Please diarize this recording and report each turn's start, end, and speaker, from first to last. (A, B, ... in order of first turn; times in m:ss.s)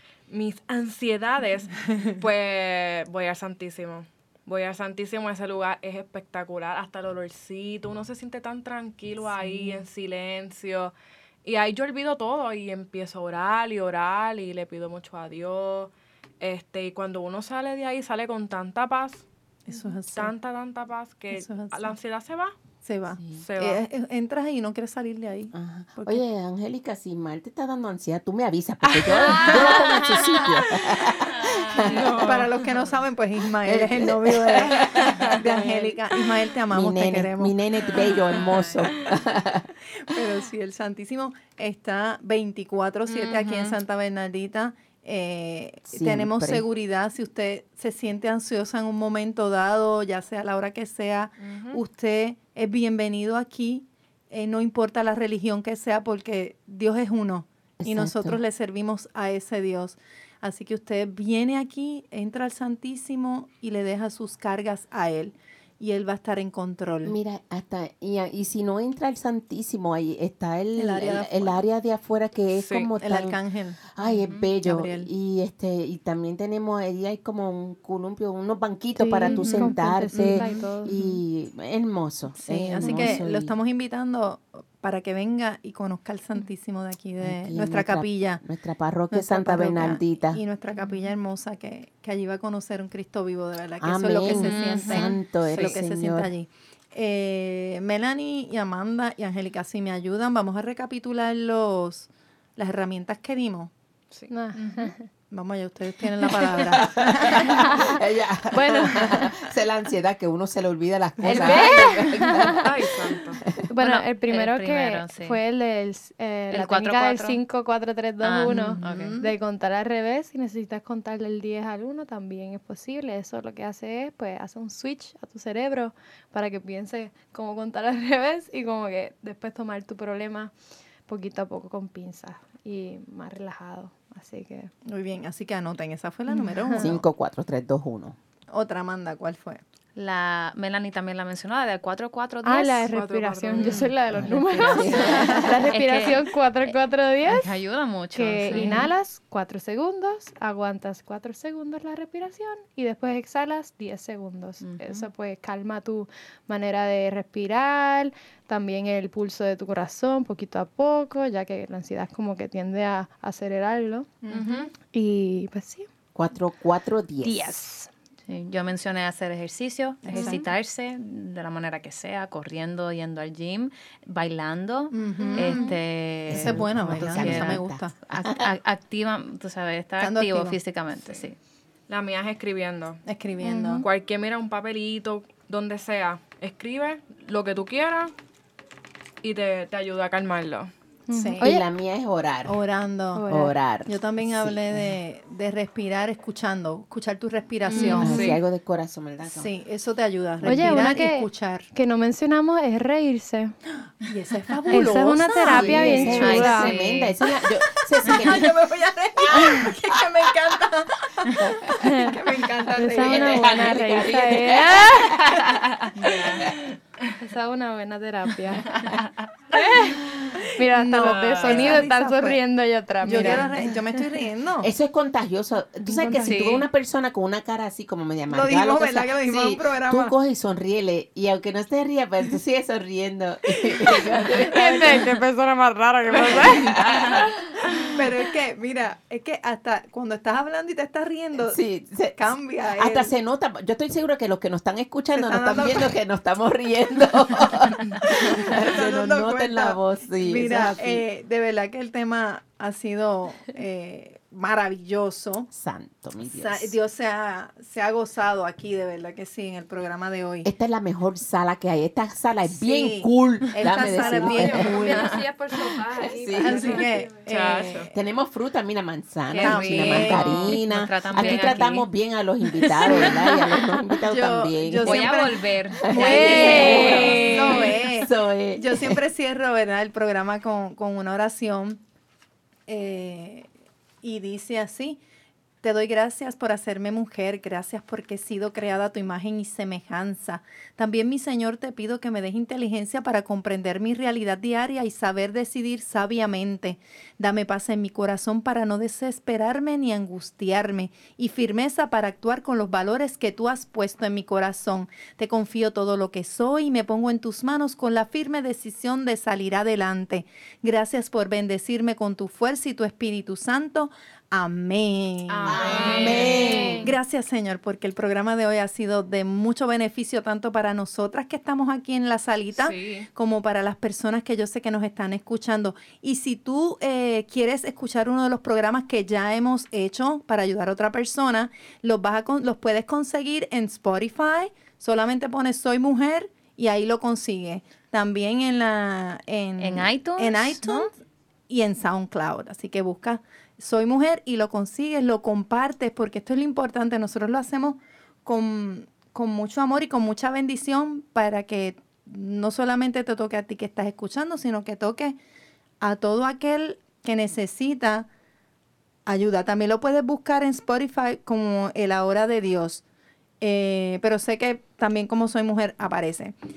0:00.3-0:19.3 A
0:19.7-0:20.3 B
0:20.1-0:22.5 A
0:21.3-0:21.9 B
0:22.8-0:26.2 B
0:23.3-0:23.8 A
0:25.5-0:32.3 C
0:28.8-0:32.9 A
0:32.1-0:37.6 B
0:33.6-0:36.0 C
0:34.8-0:35.4 A
0:36.7-0:39.7 C
0:37.9-0:39.2 A
0:40.0-1:07.2 B
0:43.1-0:43.8 A
0:45.9-0:46.7 C
0:51.4-0:51.8 A
0:57.8-0:58.4 C
1:07.0-1:23.5 C
1:10.8-1:11.6 B
1:12.5-1:12.9 A
1:13.0-1:13.9 B
1:14.6-1:15.1 B
1:19.0-1:21.2 D
1:19.2-1:20.6 B
1:22.4-1:28.4 B
1:22.8-1:23.2 D
1:27.2-1:30.4 C
1:29.1-1:43.7 B
1:33.8-1:36.3 C
1:34.5-1:35.0 A
1:44.3-1:45.1 D
1:45.3-1:47.7 B
1:46.3-1:53.6 C
1:47.5-1:48.0 D
1:48.5-1:49.4 D
1:51.2-1:51.7 B
1:51.2-2:10.5 D
1:52.6-1:53.4 A
1:53.8-1:55.4 E
1:56.5-1:57.4 E
1:58.2-1:59.2 E
1:58.4-1:59.3 B
2:11.1-2:14.7 D
2:14.9-2:17.0 B
2:16.3-2:17.0 D
2:16.8-2:18.2 C
2:18.5-2:19.6 B
2:20.0-2:22.9 E
2:22.4-2:27.5 D
2:22.9-2:23.9 A
2:23.6-2:28.9 E
2:24.1-2:25.5 C
2:28.1-2:45.9 D
2:34.6-2:35.1 E
2:44.2-2:44.7 B
2:46.2-2:47.6 C
2:47.2-2:47.9 D
2:48.3-3:01.4 E
2:50.0-2:50.4 B
2:50.1-2:50.4 D
2:54.9-2:55.8 B
2:55.2-2:55.8 D
2:56.3-2:58.5 C
2:56.3-2:57.9 B
3:00.0-3:00.6 B
3:01.9-3:03.0 A
3:03.1-3:03.9 B
3:03.4-3:03.9 D
3:03.8-3:08.1 A
3:09.2-3:10.7 A
3:11.1-3:11.6 D
3:11.1-3:11.4 B
3:11.4-3:12.6 C
3:12.5-3:13.3 B
3:13.2-3:13.5 D
3:13.3-3:15.0 C
3:13.8-3:18.3 B
3:17.7-3:18.3 D
3:17.8-3:19.5 C
3:17.8-3:18.4 A
3:19.2-3:21.7 B
3:20.4-3:20.9 C
3:20.4-3:23.6 D
3:24.0-3:26.6 B
3:24.7-3:26.8 D
3:25.4-3:28.6 C
3:26.2-3:27.2 E
3:28.0-3:33.6 B
3:29.2-3:30.0 C
3:31.4-3:32.0 C
3:31.8-3:32.2 D
3:32.7-3:35.4 D
3:33.0-3:36.6 C
3:36.0-3:36.4 D
3:36.2-3:37.1 A
3:37.2-3:43.7 D
3:38.7-3:39.0 A
3:40.4-3:42.4 B
3:41.0-3:41.8 A
3:43.0-3:44.7 B
3:43.1-3:43.5 C
3:44.6-3:55.1 C
3:45.8-3:46.6 D
3:48.3-3:50.2 B
3:53.6-3:54.9 B
3:54.3-3:58.0 A
3:56.1-3:56.6 B
3:56.1-3:57.3 C
3:57.8-4:01.6 B
4:01.5-4:11.0 C
4:02.1-4:03.1 B
4:05.1-4:05.9 B
4:08.0-4:15.5 B
4:15.5-4:16.8 C
4:16.2-4:20.5 B
4:20.4-4:25.0 C
4:22.4-4:25.2 B
4:24.0-4:25.2 A
4:24.1-4:27.3 D
4:26.0-4:26.8 C
4:26.4-4:28.0 B
4:27.3-4:27.9 A
4:27.9-4:35.2 C
4:29.3-4:31.9 E
4:29.4-4:30.6 B
4:32.7-4:33.8 D
4:34.1-4:41.8 B
4:34.8-4:37.3 E
4:35.8-4:39.0 C
4:35.9-4:37.7 D
4:36.4-4:37.5 A
4:42.7-4:43.5 B
4:44.0-4:45.0 B
4:45.6-5:40.9 B
5:15.3-5:16.9 A
5:15.5-5:16.9 C
5:16.1-5:16.8 E
5:22.5-5:23.1 A
5:39.6-5:40.8 E
5:41.5-5:55.2 B
5:55.8-5:58.1 B
5:59.1-6:02.8 B
6:03.4-6:06.3 B